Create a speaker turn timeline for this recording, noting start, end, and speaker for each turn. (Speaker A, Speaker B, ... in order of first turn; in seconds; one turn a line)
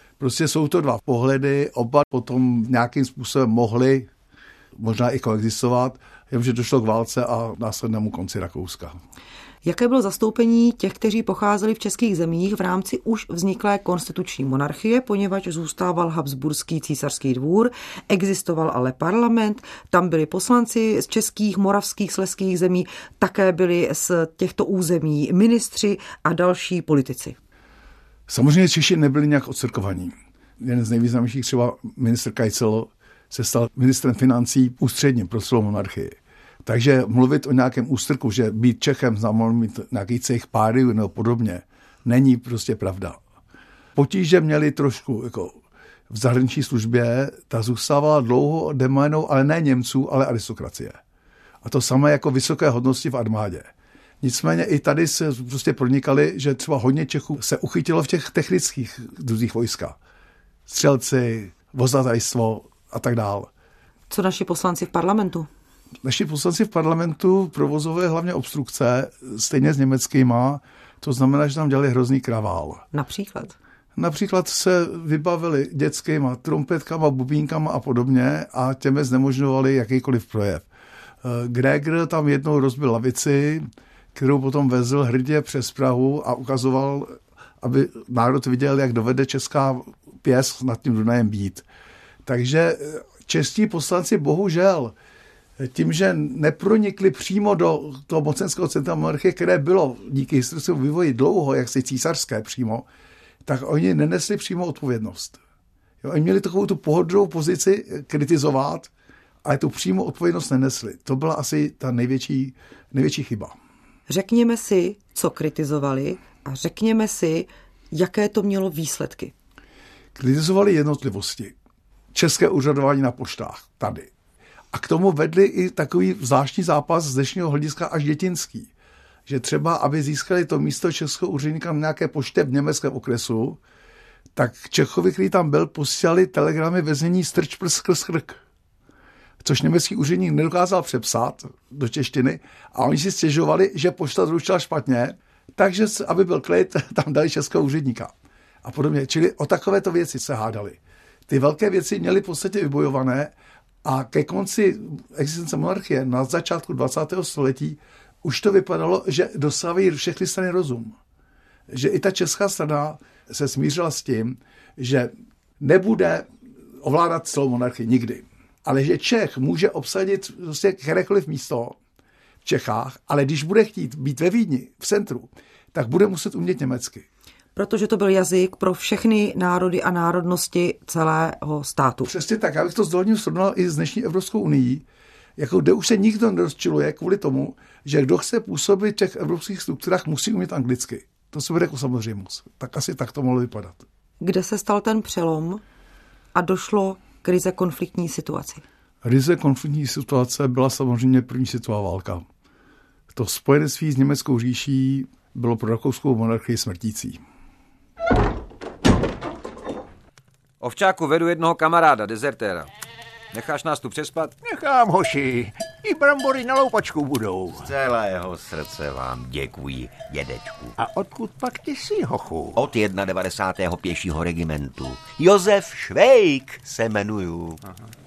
Speaker A: 0.2-4.1
Speaker A: 4.8-8.9
Speaker B: 9.6-27.4
Speaker A: 28.3-43.2
Speaker A: 43.9-45.6
Speaker A: 46.1-51.0
Speaker A: 51.6-53.7
Speaker A: 54.2-60.0
Speaker A: 60.7-63.5
Speaker B: 64.1-65.5
Speaker A: 66.0-72.8
Speaker B: 72.9-73.5
Speaker A: 74.0-80.7
Speaker A: 81.2-91.6
Speaker A: 92.2-94.9
Speaker A: 95.6-102.9
Speaker A: 103.4-105.4
Speaker A: 106.0-108.9
Speaker A: 109.4-113.5
Speaker B: 114.1-119.3
Speaker A: 120.1-121.5
Speaker A: 122.1-124.1
Speaker A: 124.7-128.7
Speaker A: 129.3-133.6
Speaker A: 134.3-138.4
Speaker A: 139.4-160.9
Speaker A: 161.7-166.3
Speaker A: 166.8-171.8
Speaker A: 172.4-177.1
Speaker B: 177.6-182.1
Speaker A: 182.1-184.8
Speaker A: 185.4-193.8
Speaker B: 194.2-195.6
Speaker B: 196.3-198.6
Speaker A: 199.0-202.2
Speaker A: 203.1-207.2
Speaker C: 210.6-212.7
Speaker C: 213.3-214.3
Speaker D: 214.4-217.7
Speaker E: 217.6-220.7
Speaker D: 220.8-222.6
Speaker E: 222.6-227.9